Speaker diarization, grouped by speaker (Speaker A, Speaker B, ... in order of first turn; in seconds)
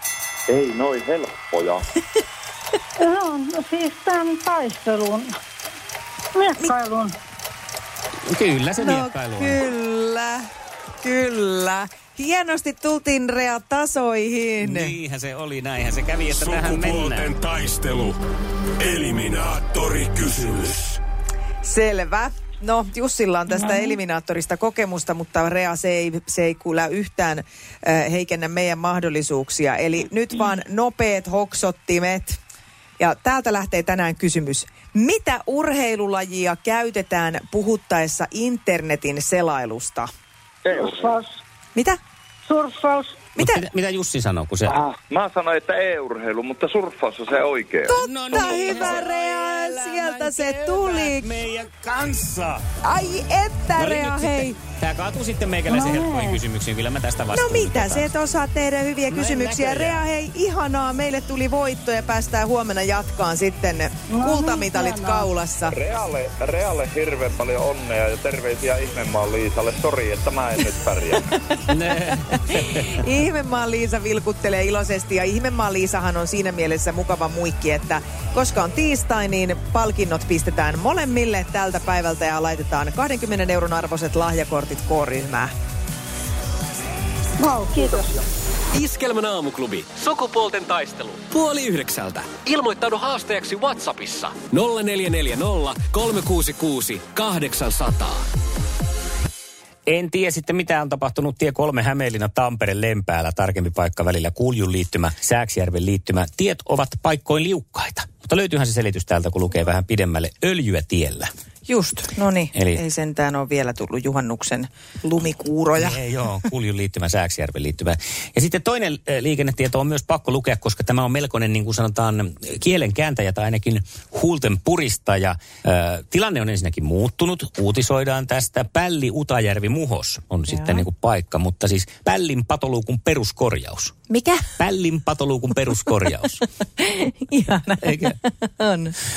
Speaker A: 0.5-1.9, 40.7-41.1, 44.7-48.6, 65.7-71.3
Speaker B: 3.0-5.3, 6.4-7.2, 23.5-24.0, 40.7-41.4, 42.5-43.2, 55.7-56.4, 64.1-65.3, 87.4-88.2
Speaker C: 8.3-9.6, 14.6-17.3, 43.4-44.8, 47.9-52.6, 53.8-58.1, 59.1-60.0, 71.7-72.9, 99.9-111.3, 112.5-112.8, 115.8-133.9, 134.6-136.4, 137.8-138.2
Speaker D: 8.8-10.4, 11.0-14.9, 21.6-32.4, 33.0-40.1, 43.4-43.6, 47.9-51.3, 52.8-54.5, 57.3-65.8, 72.3-85.5, 111.7-116.0, 130.5-130.8, 134.1-134.6, 136.8-138.9
Speaker E: 16.3-18.2, 18.8-21.0, 88.7-98.3